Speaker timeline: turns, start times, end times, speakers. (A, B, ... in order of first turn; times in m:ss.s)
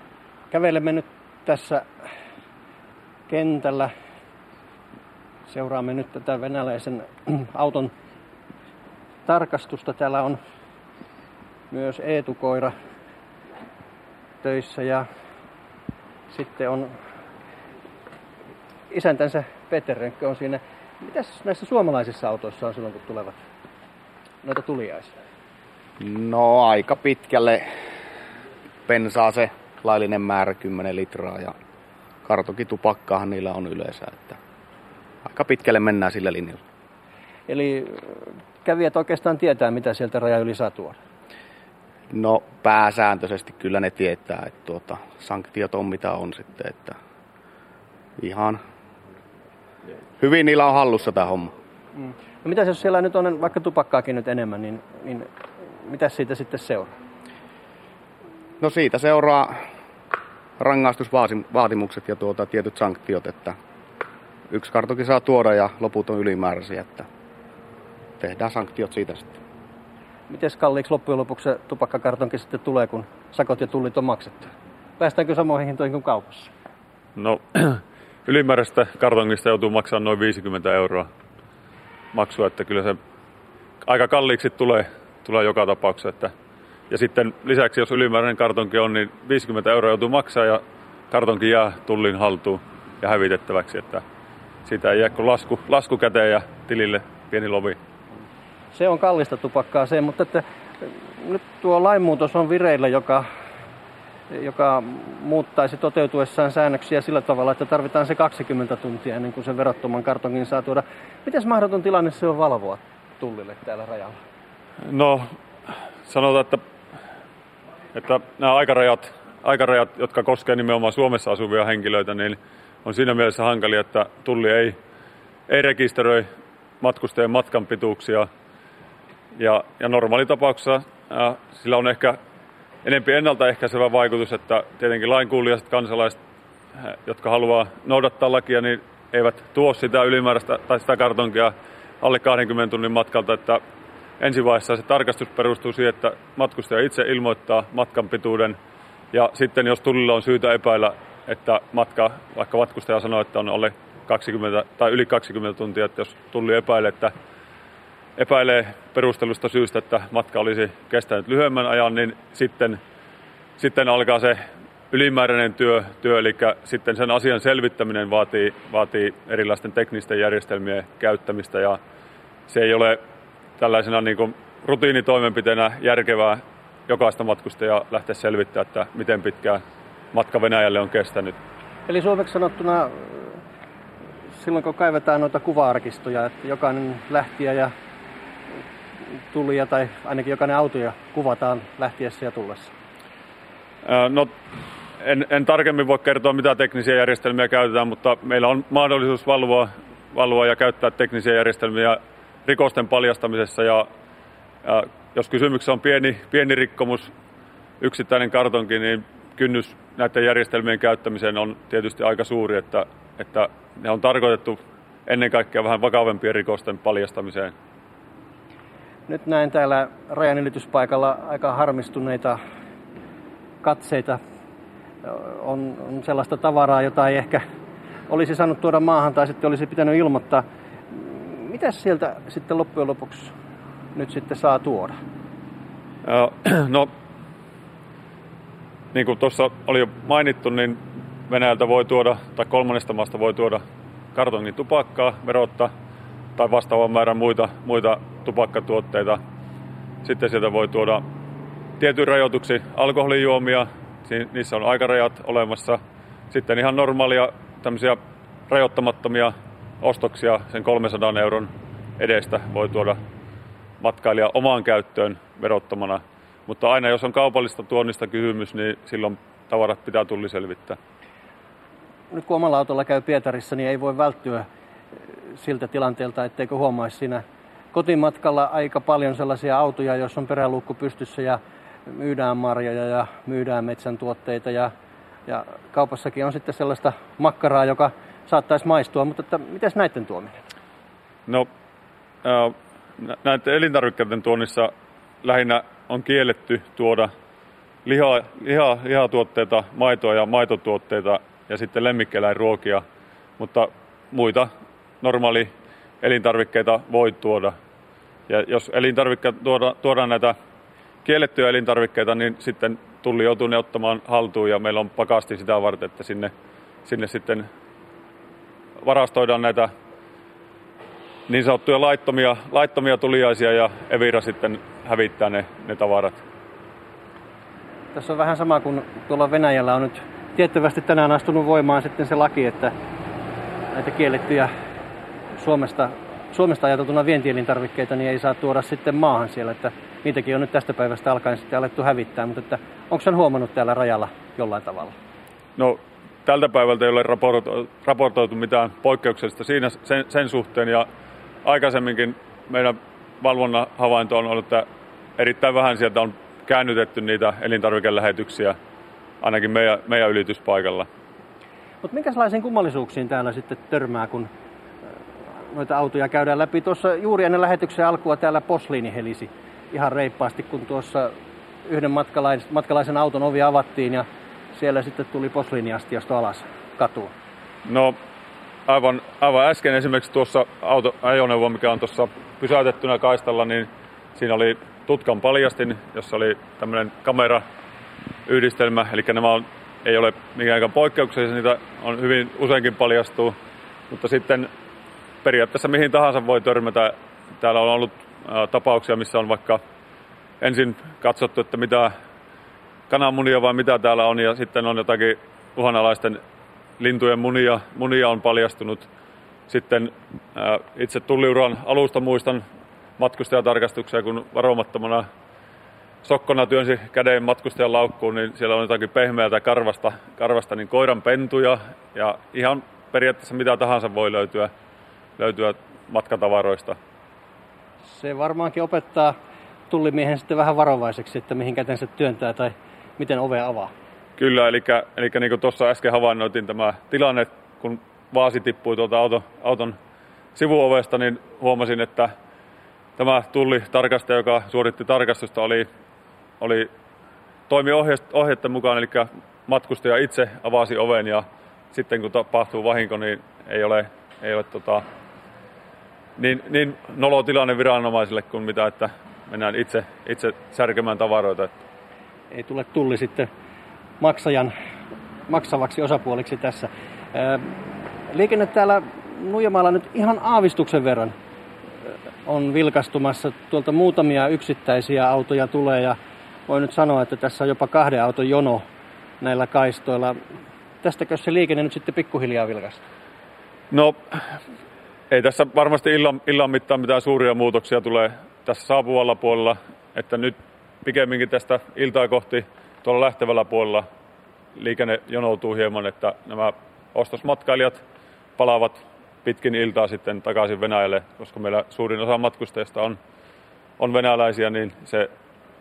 0:00.5-0:01.8 A
0:03.3-0:03.9 A
0:05.5-0:07.9 A
0:09.2-0:10.4 A
0:11.7-0:12.7 A
0:14.4-0:15.0 A
0:16.3-0:16.9 A
0:18.9-0:23.4 A
0:24.4-0:25.1 A
0:26.0-0:27.6 B
0:28.9-0:31.5 B
0:32.2-0:34.4 B
0:35.2-0:36.6 B
0:37.5-0:41.0 A
0:42.1-0:47.0 B
0:48.2-0:48.6 B
0:50.2-0:51.5 B
0:51.9-0:55.3 A
0:55.8-0:56.9 A
0:58.6-0:59.6 B
1:00.6-1:03.6 B
1:04.5-1:07.1 B
1:08.2-1:09.4 B
1:10.3-1:16.5 A
1:17.2-1:21.1 C
1:22.1-1:23.0 C
1:23.8-1:26.3 C
1:26.9-1:34.0 C
1:34.6-1:37.8 C
1:38.7-1:43.2 A
1:44.3-1:54.2 A
1:54.9-1:55.3 C
1:56.0-1:56.6 C
1:57.9-2:04.8 C
2:05.5-2:06.2 C
2:06.8-2:08.3 C
2:09.4-2:12.2 C
2:12.8-2:16.2 C
2:16.8-2:23.6 C
2:24.2-2:28.6 C
2:29.1-2:37.1 C
2:38.2-2:42.8 C
2:43.6-2:44.4 C
2:44.9-2:51.8 C
2:52.5-2:53.0 C
2:53.6-2:59.6 C
3:00.1-3:01.3 C
3:01.9-3:03.4 A
3:04.3-3:07.7 A
3:09.3-3:12.7 A
3:13.8-3:14.3 C
3:15.0-3:23.8 C
3:24.6-3:27.1 C
3:27.8-3:37.5 C
3:39.1-3:42.4 A
3:43.6-3:44.2 A
3:45.0-3:47.4 A
3:48.1-3:53.3 A
3:53.9-3:55.0 A
3:56.0-3:56.9 C
3:58.9-4:03.6 C
4:04.1-4:05.7 C
4:06.4-4:09.2 C
4:10.0-4:11.0 C
4:11.8-4:15.8 C
4:16.3-4:18.0 C
4:18.5-4:23.0 C
4:23.8-4:30.8 C
4:32.1-4:34.4 A
4:35.3-4:44.7 A
4:45.3-4:50.4 A
4:52.2-4:54.7 C
4:55.2-4:57.1 C
4:57.8-5:02.8 C
5:03.4-5:04.5 C
5:05.0-5:05.5 C
5:06.0-5:07.5 C
5:08.3-5:10.3 C
5:11.0-5:16.3 C
5:16.8-5:17.4 C
5:18.8-5:19.7 C
5:21.3-5:26.2 C
5:27.9-5:32.7 A
5:33.7-5:34.5 A
5:35.4-5:45.0 A
5:45.6-5:50.8 C
5:51.4-5:54.6 C
5:55.2-5:58.5 C
5:59.2-6:00.9 C
6:01.8-6:04.3 A
6:05.4-6:11.1 A
6:11.6-6:17.1 A
6:17.6-6:18.0 C
6:18.7-6:27.4 C
6:28.3-6:33.3 C
6:33.9-6:34.5 C
6:35.2-6:39.6 C
6:40.4-6:41.9 C
6:42.9-6:46.2 C
6:46.8-6:48.9 C
6:49.5-6:52.4 C
6:53.0-6:55.0 C
6:56.0-7:04.5 C
7:05.2-7:06.8 C
7:07.9-7:09.1 A
7:09.7-7:13.7 A
7:14.2-7:19.8 C
7:20.3-7:22.1 C
7:23.0-7:25.7 C
7:26.4-7:26.7 C
7:27.5-7:34.8 C
7:36.2-7:41.5 C
7:42.3-7:43.3 A
7:44.0-7:44.5 A
7:45.3-7:47.5 A
7:48.1-7:51.1 A
7:52.2-7:56.0 A
7:56.5-7:58.6 A
7:59.2-8:00.1 A
8:00.8-8:02.8 A
8:03.7-8:04.4 C
8:05.1-8:13.8 C
8:14.6-8:17.8 C
8:18.4-8:23.0 C
8:23.8-8:25.1 C